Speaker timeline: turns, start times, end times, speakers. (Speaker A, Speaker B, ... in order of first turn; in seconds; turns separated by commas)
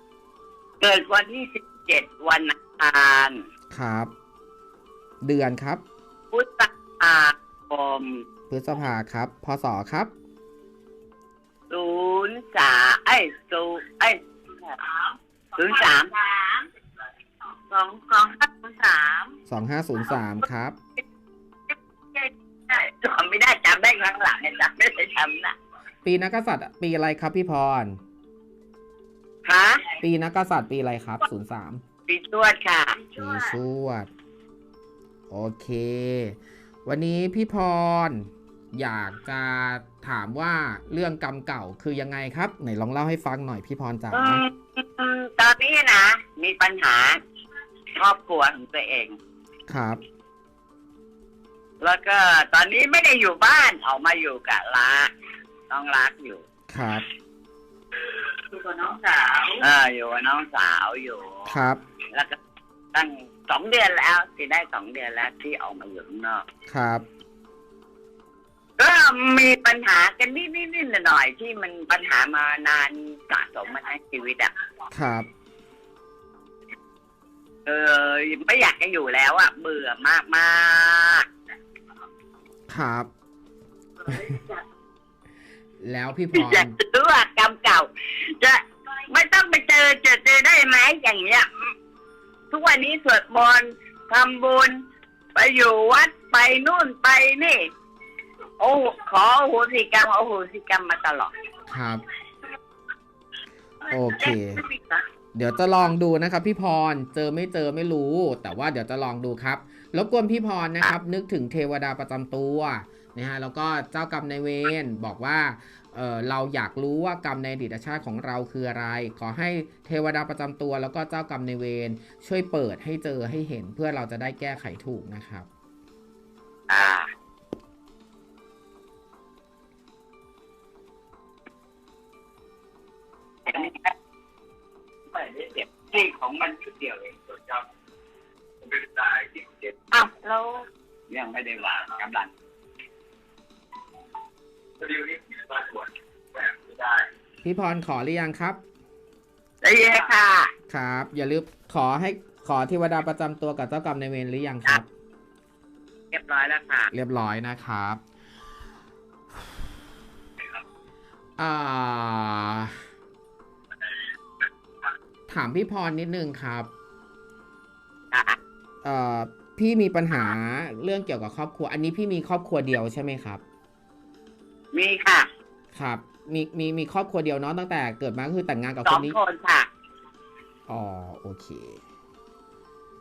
Speaker A: 0.8-3.4, Speaker B: 3.7-4.1, Speaker B: 5.2-5.8, Speaker A: 6.3-8.2, Speaker B: 8.5-10.1, Speaker A: 11.7-14.8, Speaker A: 15.6-16.1, Speaker C: 17.7-19.3, Speaker B: 19.5-20.8, Speaker A: 22.1-25.6, Speaker B: 26.0-28.0, Speaker A: 29.4-29.9, Speaker B: 30.0-31.8, Speaker A: 32.1-33.1, Speaker B: 33.2-34.1, Speaker B: 35.3-44.4, Speaker A: 44.1-47.2, Speaker A: 47.9-49.2, Speaker B: 49.7-50.0, Speaker A: 51.8-55.1, Speaker A: 55.7-56.4, Speaker B: 56.7-57.0, Speaker A: 58.7-61.5, Speaker B: 61.5-61.8, Speaker A: 62.1-62.4, Speaker A: 62.9-66.5, Speaker B: 66.7-67.0, Speaker A: 68.8-74.5, Speaker B: 74.9-75.3, Speaker A: 77.7-81.3, Speaker B: 82.7-83.1, Speaker B: 85.8-86.7, Speaker A: 86.3-91.7, Speaker A: 92.5-94.8, Speaker A: 95.3-97.6, Speaker A: 98.6-101.3, Speaker B: 101.7-102.0, Speaker B: 103.9-104.6, Speaker A: 104.2-105.0, Speaker B: 105.3-125.5, Speaker A: 126.7-127.1, Speaker A: 133.4-133.9, Speaker A: 135.1-137.6, Speaker A: 138.7-140.0, Speaker C: 139.9-140.7, Speaker A: 141.1-142.3, Speaker A: 144.8-145.8, Speaker B: 147.4-148.6, Speaker A: 149.6-150.5, Speaker B: 150.7-154.9, Speaker A: 156.1-156.9, Speaker B: 156.9-158.0, Speaker B: 161.4-162.8, Speaker B: 165.3-166.7, Speaker A: 168.1-168.4, Speaker B: 168.8-173.4, Speaker A: 174.7-175.3, Speaker B: 175.7-179.2, Speaker A: 178.8-179.7, Speaker B: 180.7-181.8